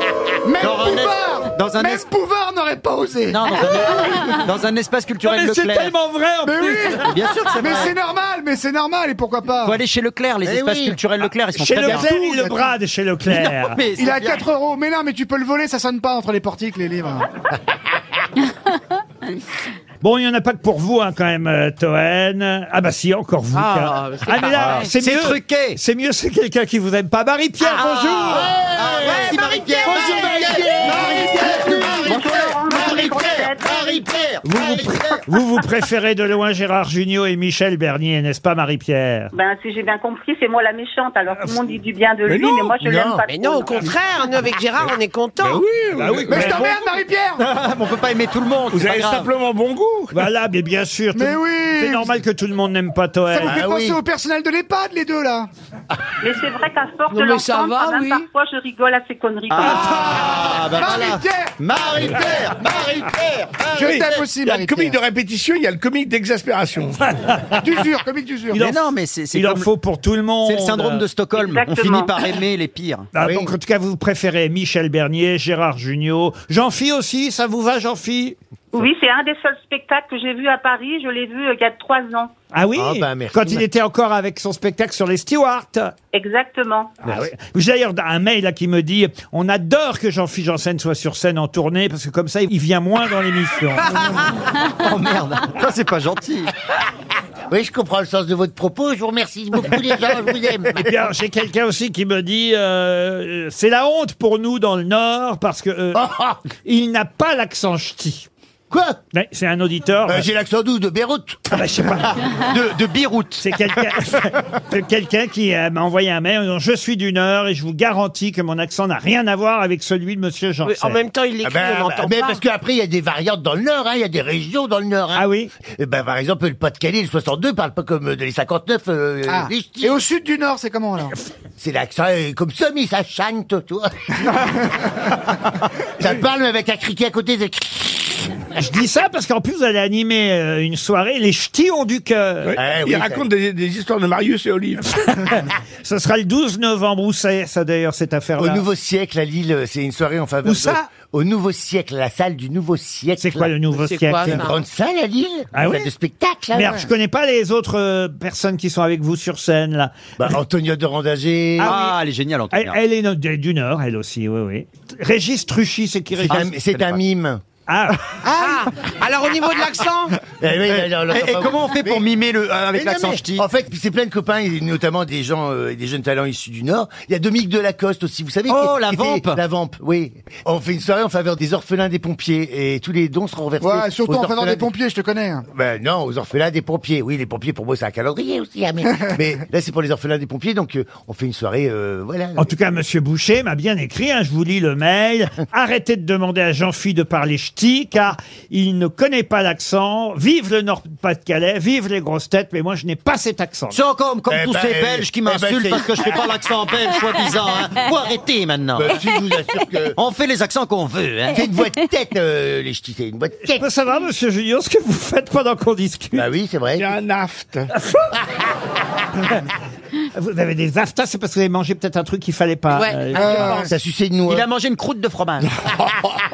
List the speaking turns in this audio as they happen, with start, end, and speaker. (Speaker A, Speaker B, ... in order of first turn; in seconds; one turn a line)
Speaker A: 0.4-3.4
Speaker B: 0.6-2.1
Speaker B: 3.3-5.9
Speaker C: 3.9-4.3
Speaker C: 5.2-7.0
Speaker A: 6.4-7.0
Speaker B: 7.0-7.9
Speaker A: 7.6-9.7
Speaker B: 9.6-12.2
Speaker D: 10.4-11.0
Speaker C: 11.6-13.8
Speaker A: 12.0-12.7
Speaker B: 13.3-14.5
Speaker A: 14.0-17.2
Speaker C: 20.0-28.6
Speaker B: 23.6-25.8
Speaker E: 23.6-24.7
Speaker B: 27.6-34.4
Speaker D: 28.3-33.5
Speaker F: 30.8-34.0
Speaker D: 34.0-34.9
Speaker C: 34.4-39.3
Speaker F: 39.3-43.9
Speaker G: 42.3-42.7
Speaker D: 42.8-43.2
Speaker E: 43.3-45.6
Speaker G: 45.4-46.6
Speaker C: 46.0-46.7
Speaker A: 46.3-47.4
Speaker B: 47.4-49.3
Speaker G: 48.7-50.1
Speaker C: 50.1-53.6
Speaker A: 51.1-52.1
Speaker A: 53.3-55.5
Speaker D: 53.5-54.0
Speaker F: 56.2-60.0
Speaker E: 57.1-58.2
Speaker B: 59.5-64.1
Speaker A: 59.9-61.5
Speaker D: 62.8-63.1
Speaker A: 63.8-65.0
Speaker G: 63.8-67.0
Speaker C: 67.2-67.7
Speaker A: 67.6-68.6
Speaker B: 68.5-69.7
Speaker C: 68.5-71.0
Speaker B: 70.4-73.1
Speaker F: 71.3-72.1
Speaker C: 73.1-78.4
Speaker D: 73.2-73.5
Speaker F: 78.7-82.3
Speaker C: 82.5-85.9
Speaker D: 82.8-83.6
Speaker F: 86.1-86.9
Speaker C: 87.0-94.0
Speaker B: 93.9-96.5
Speaker D: 97.5-100.8
Speaker C: 100.7-108.3
Speaker D: 105.9-106.4
Speaker D: 108.7-109.0
Speaker C: 109.1-110.3
Speaker D: 110.1-111.6
Speaker C: 111.5-112.2
Speaker B: 112.3-113.4
Speaker C: 113.4-121.0
Speaker E: 120.6-122.4
Speaker D: 121.4-130.0
Speaker C: 125.1-125.5
Speaker A: 129.3-131.2
Speaker D: 131.6-134.1
Speaker D: 136.0-138.3
Speaker C: 138.5-142.5
Speaker G: 142.4-144.9
Speaker D: 142.6-143.3
Speaker C: 145.2-148.7
Speaker D: 148.4-153.5
Speaker C: 150.4-150.8
Speaker C: 153.2-154.5
Speaker E: 153.7-154.6
Speaker D: 154.2-156.8
Speaker C: 155.5-155.9
Speaker C: 156.5-160.0
Speaker D: 160.2-161.7
Speaker C: 161.6-162.0
Speaker B: 161.6-162.8
Speaker C: 162.5-166.5
Speaker D: 166.2-167.4
Speaker B: 166.3-167.0
Speaker C: 167.7-168.0
Speaker E: 168.2-170.2
Speaker D: 170.4-172.1
Speaker B: 170.7-173.4
Speaker D: 172.7-184.7
Speaker B: 178.5-179.4
Speaker A: 183.6-185.4
Speaker D: 185.5-192.5
Speaker C: 192.3-203.8
Speaker B: 203.7-209.0
Speaker D: 204.3-206.1
Speaker D: 208.7-210.0
Speaker B: 210.0-211.4
Speaker D: 211.3-213.7
Speaker C: 213.5-216.3
Speaker D: 216.2-216.9
Speaker G: 216.8-217.7
Speaker C: 220.2-223.7
Speaker E: 222.7-223.3
Speaker A: 223.2-223.7
Speaker D: 223.4-224.5
Speaker B: 224.2-225.5